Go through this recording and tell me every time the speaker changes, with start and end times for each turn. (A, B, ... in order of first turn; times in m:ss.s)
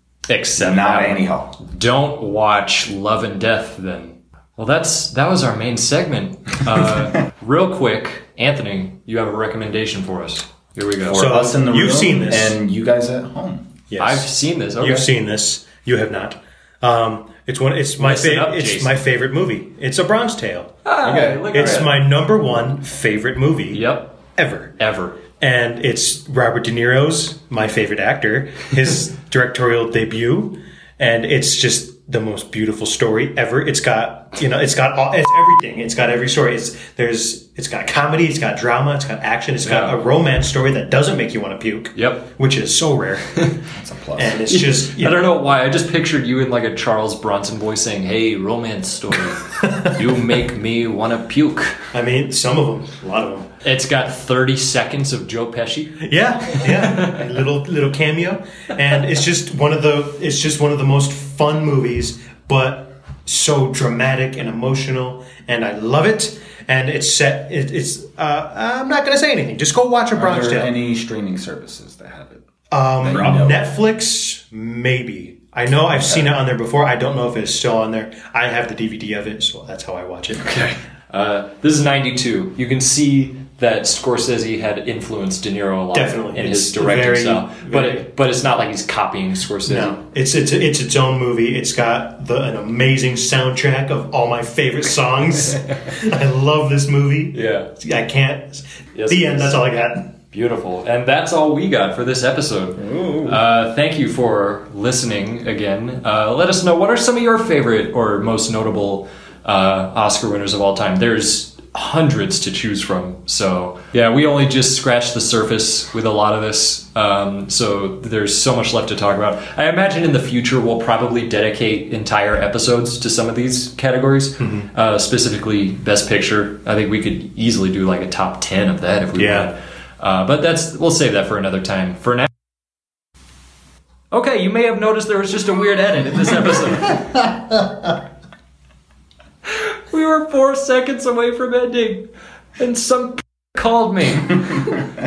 0:00.3-0:11.3 A
0:00.6-0:01.6 B
0:11.1-0:13.7 B
0:11.1-0:12.6 C
0:13.9-0:20.8 C
0:14.0-0:15.1 A
0:18.0-0:19.0 A
0:20.8-0:22.0 A
0:21.0-0:21.9 B
0:21.5-0:43.3 C
0:23.7-0:24.2 A
0:24.8-0:25.2 A
0:39.6-0:40.0 A
0:42.0-0:42.3 A
0:43.8-0:44.4 B
0:44.2-0:45.2 C
0:44.5-0:51.9 A
0:49.6-0:49.9 C
0:51.9-0:53.5 C
0:53.6-0:56.0 A
0:56.0-1:10.7 C
0:56.6-0:57.2 A
1:10.1-1:12.5 B
1:12.7-1:20.5 C
1:13.0-1:13.6 B
1:16.0-1:16.3 B
1:20.4-1:20.7 B
1:20.5-1:30.0 A
1:25.9-1:28.1 C
1:29.7-1:40.1 C
1:37.3-1:37.7 A
1:39.0-1:39.6 A
1:40.3-2:12.3 A
1:42.8-1:43.4 B
2:04.4-2:04.7 C
2:09.2-2:09.5 C
2:14.1-2:17.2 A
2:19.5-2:24.4 A